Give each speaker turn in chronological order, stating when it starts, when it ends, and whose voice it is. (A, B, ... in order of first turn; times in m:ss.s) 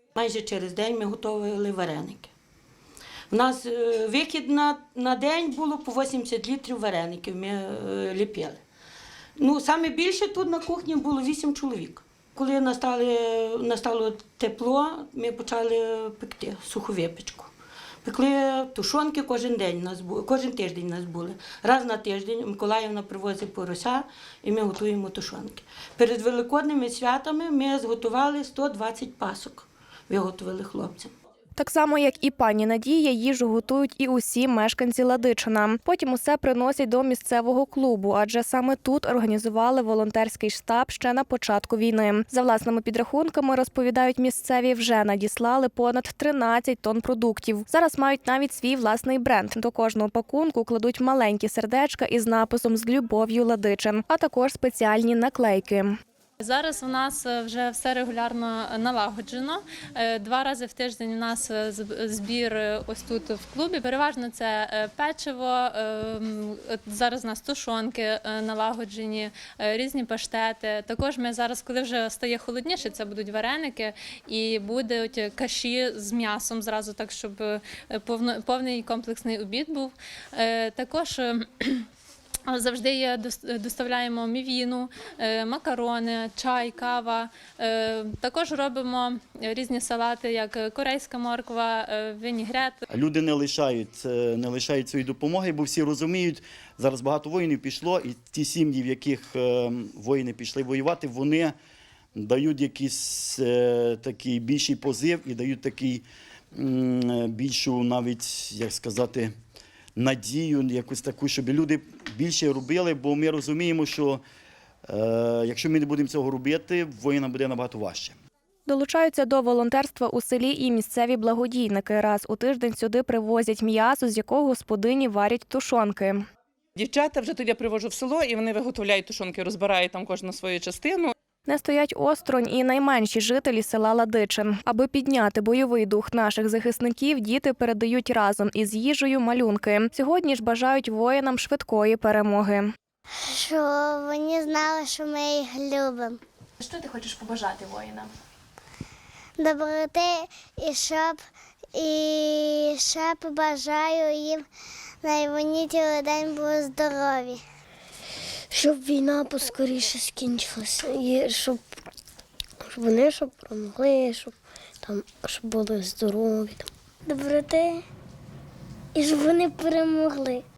0:00.2-0:02.3 A
0:03.3-0:08.6 A
0:09.4-0:17.5 A
0:18.0-0:31.1 A
0:31.6-0:56.0 B
0:56.4-1:21.9 C
1:22.5-1:32.8 C
1:32.9-1:41.5 D
1:42.2-1:49.3 D
1:50.0-1:54.2 D
1:54.9-1:58.2 D
1:58.7-2:06.2 B
2:06.8-2:11.1 E
2:11.5-2:22.7 B
2:23.2-2:26.2 F
2:26.8-2:27.6 B
2:29.4-2:31.2 F
2:31.8-2:34.4 F
2:35.0-2:37.4 F
2:38.5-2:41.6 G
2:42.6-2:46.7 G
2:47.1-2:47.8 F
2:49.0-2:50.4 G